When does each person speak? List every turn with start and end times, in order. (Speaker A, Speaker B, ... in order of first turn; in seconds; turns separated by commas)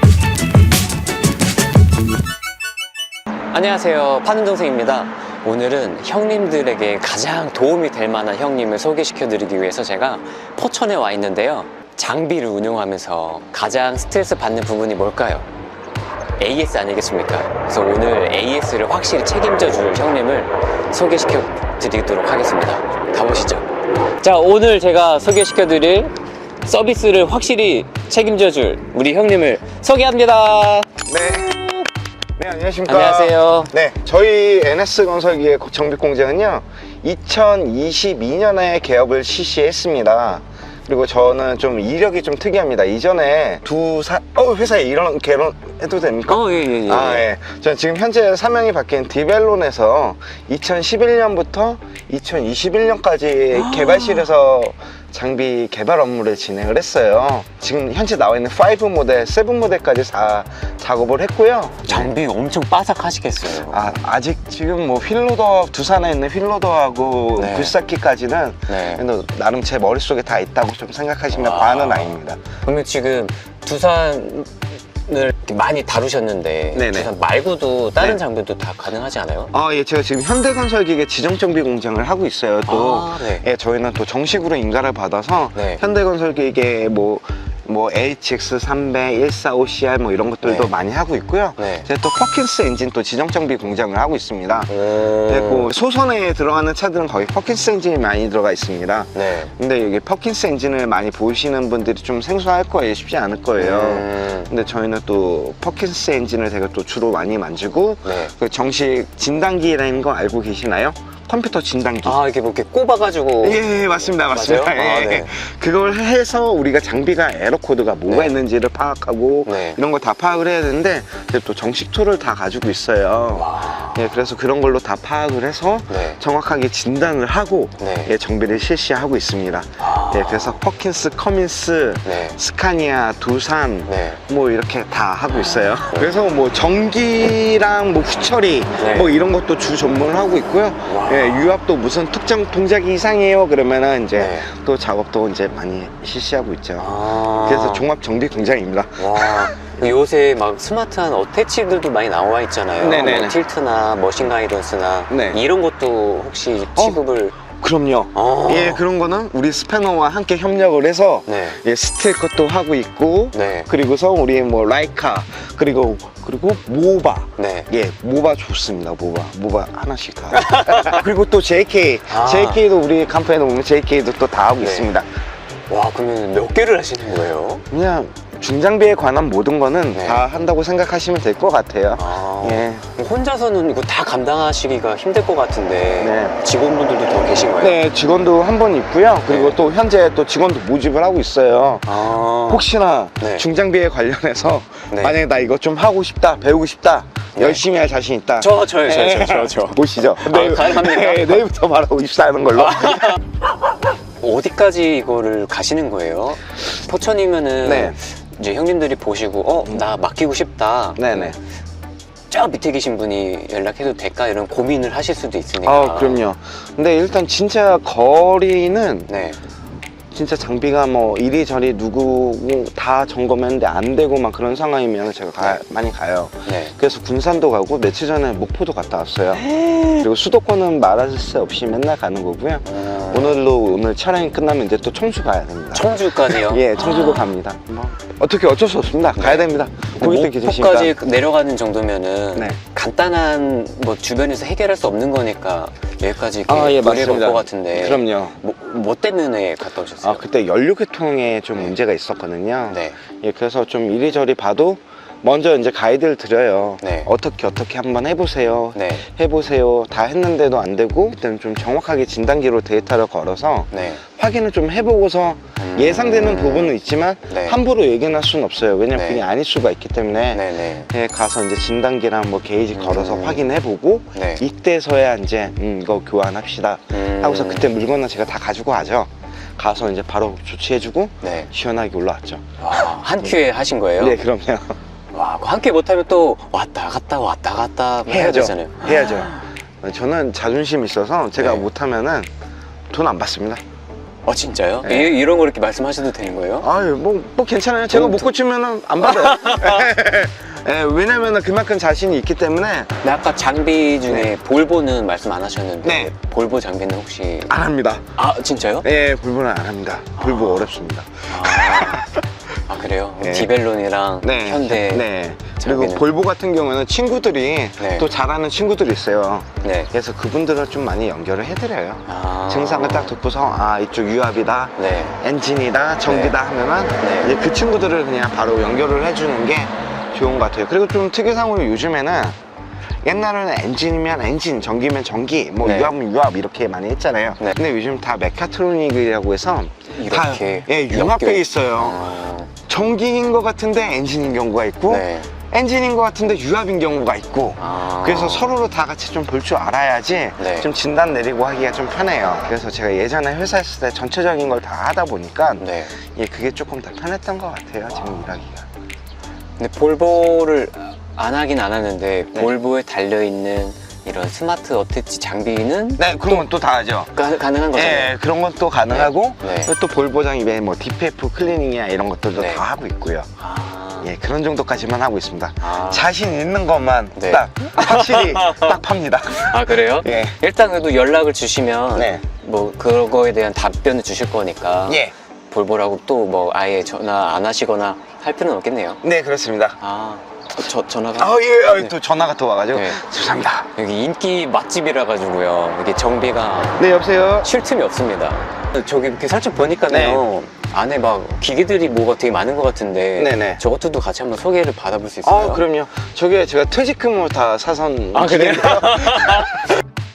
Speaker A: 3.5-15.5, Speaker A: 16.4-23.7, Speaker A: 24.2-31.0, Speaker B: 31.1-62.1, Speaker A: 32.9-33.7, Speaker A: 46.3-47.3, Speaker A: 53.5-54.3, Speaker A: 61.9-64.0, Speaker B: 63.7-72.4, Speaker A: 67.4-67.8, Speaker A: 68.7-69.0, Speaker A: 71.3-74.5, Speaker A: 75.1-79.5, Speaker B: 76.7-77.1, Speaker B: 79.5-112.2, Speaker A: 82.7-83.5, Speaker A: 85.5-85.8, Speaker A: 90.4-90.7, Speaker A: 91.6-91.9, Speaker A: 94.7-95.7, Speaker A: 99.2-99.5, Speaker A: 103.6-104.5, Speaker A: 108.0-108.3, Speaker A: 112.0-115.3, Speaker B: 113.4-149.9, Speaker A: 118.1-118.3, Speaker A: 119.5-119.8, Speaker A: 123.3-124.1, Speaker A: 125.9-126.2, Speaker A: 127.8-128.1, Speaker A: 129.8-130.6, Speaker A: 132.1-132.4, Speaker A: 133.9-134.2, Speaker A: 135.6-136.1, Speaker A: 138.8-139.1, Speaker A: 140.9-141.5, Speaker A: 144.2-144.5, Speaker A: 146.8-147.9, Speaker A: 149.0-157.4, Speaker B: 152.8-153.4, Speaker B: 155.1-155.4, Speaker B: 156.8-157.0, Speaker B: 157.6-175.1, Speaker A: 158.1-158.8, Speaker A: 161.3-161.6, Speaker A: 163.3-163.7, Speaker A: 167.4-167.7, Speaker A: 170.3-171.0, Speaker A: 172.1-172.6, Speaker A: 174.6-174.9, Speaker A: 175.7-177.7, Speaker B: 177.7-182.8, Speaker A: 179.9-180.2, Speaker A: 182.0-187.8, Speaker B: 186.0-186.3, Speaker B: 187.6-203.2, Speaker A: 189.3-189.6, Speaker A: 191.9-192.7, Speaker A: 193.2-193.4, Speaker A: 194.9-195.2, Speaker A: 197.4-197.6, Speaker A: 198.4-201.4, Speaker A: 202.6-203.3, Speaker A: 204.2-211.4, Speaker B: 207.6-208.0, Speaker B: 211.0-211.4, Speaker A: 212.3-216.2, Speaker B: 215.6-219.1, Speaker A: 219.1-219.4, Speaker B: 220.1-240.9, Speaker A: 226.5-226.8, Speaker A: 229.4-230.1, Speaker A: 232.7-233.4, Speaker A: 235.7-237.3, Speaker A: 239.2-250.2, Speaker B: 246.5-248.4, Speaker B: 250.0-283.4, Speaker A: 252.7-253.0, Speaker A: 256.8-257.1, Speaker A: 258.8-259.0, Speaker A: 263.7-264.0, Speaker A: 265.6-266.8, Speaker A: 267.3-267.6, Speaker A: 268.9-269.2, Speaker A: 270.3-270.9, Speaker A: 272.8-273.4, Speaker A: 274.1-274.4, Speaker A: 276.9-277.7, Speaker A: 281.2-281.5, Speaker A: 282.6-284.2, Speaker B: 284.0-284.8, Speaker A: 285.1-289.4, Speaker B: 288.1-292.3, Speaker A: 291.4-291.7, Speaker B: 292.9-293.6, Speaker A: 294.3-296.7, Speaker B: 294.8-295.1, Speaker B: 296.6-302.9, Speaker A: 297.9-298.3, Speaker A: 299.0-299.9, Speaker A: 303.0-307.5, Speaker B: 305.8-306.1, Speaker B: 307.5-308.1, Speaker A: 308.2-308.9, Speaker B: 308.8-312.2, Speaker A: 310.2-310.7, Speaker A: 311.3-312.1, Speaker A: 312.7-315.1, Speaker B: 313.2-313.5, Speaker B: 314.2-332.4, Speaker A: 315.6-316.0, Speaker A: 317.8-318.1, Speaker A: 319.6-319.9, Speaker A: 322.1-323.1, Speaker A: 324.8-325.2, Speaker A: 326.1-326.4, Speaker A: 327.0-327.3, Speaker B: 333.0-342.1, Speaker A: 335.6-335.9, Speaker A: 339.9-342.5, Speaker B: 342.6-358.7, Speaker A: 344.9-345.3, Speaker A: 347.6-348.6, Speaker A: 350.4-350.7, Speaker A: 355.6-355.9, Speaker A: 359.6-366.5, Speaker B: 366.0-367.1, Speaker A: 367.1-368.1, Speaker B: 367.7-373.3, Speaker A: 368.9-369.7, Speaker A: 372.4-372.6, Speaker A: 373.4-374.1, Speaker B: 374.0-380.4, Speaker A: 375.6-376.1, Speaker A: 377.2-378.8, Speaker A: 379.3-389.0, Speaker B: 382.0-382.2, Speaker B: 384.9-385.1, Speaker B: 389.0-389.8, Speaker A: 389.8-391.9, Speaker B: 391.2-393.7, Speaker A: 392.7-393.0, Speaker A: 393.8-396.9, Speaker B: 396.8-397.5, Speaker A: 397.4-405.6, Speaker B: 399.8-400.2, Speaker B: 403.2-403.6, Speaker B: 405.2-409.6, Speaker A: 408.1-409.7